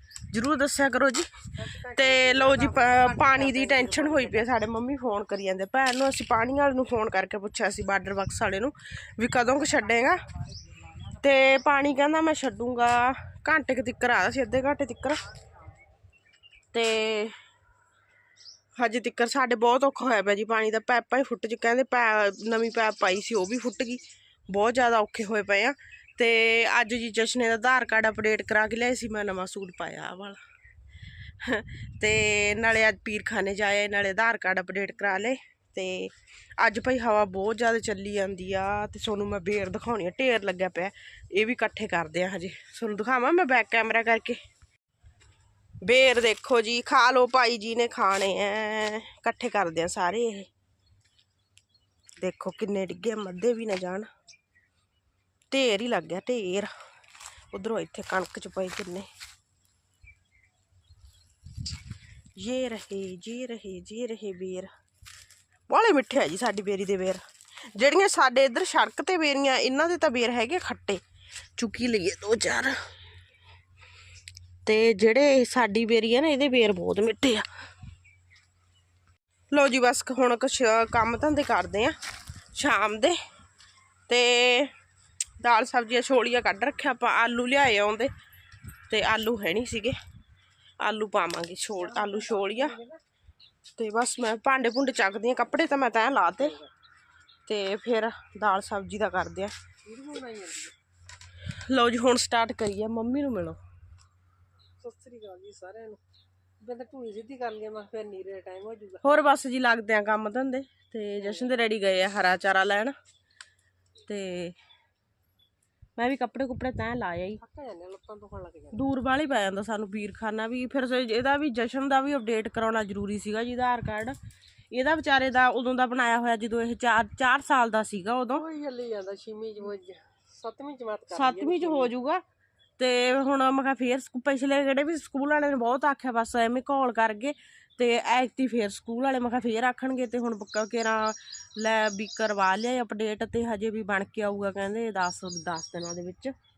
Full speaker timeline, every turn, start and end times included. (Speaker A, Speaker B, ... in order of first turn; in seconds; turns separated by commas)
Speaker A: 0.3-1.3, Speaker B: 1.6-4.5, Speaker A: 1.9-10.2, Speaker B: 9.5-11.5, Speaker A: 11.2-15.2, Speaker A: 16.7-17.4, Speaker A: 18.8-30.4, Speaker A: 31.4-44.4, Speaker A: 45.8-50.5, Speaker A: 52.2-54.1, Speaker A: 55.5-56.7, Speaker A: 57.5-59.1, Speaker A: 62.4-64.7, Speaker A: 65.7-67.2, Speaker A: 67.8-71.0, Speaker A: 71.6-72.8, Speaker A: 74.7-77.5, Speaker A: 79.5-82.0, Speaker A: 82.6-83.2, Speaker A: 84.1-84.7, Speaker A: 85.4-88.1, Speaker A: 88.9-90.0, Speaker A: 90.8-92.8, Speaker B: 91.8-93.0, Speaker A: 93.8-96.5, Speaker B: 96.2-96.7, Speaker A: 97.5-99.5, Speaker B: 99.8-100.7, Speaker A: 101.7-103.6, Speaker B: 104.8-106.0, Speaker B: 106.6-109.0, Speaker A: 109.0-113.0, Speaker B: 111.2-111.6, Speaker A: 114.1-114.6, Speaker A: 116.0-117.4, Speaker B: 117.4-118.8, Speaker A: 118.7-124.2, Speaker A: 124.7-128.4, Speaker B: 128.3-131.9, Speaker A: 131.1-132.2, Speaker A: 132.8-146.3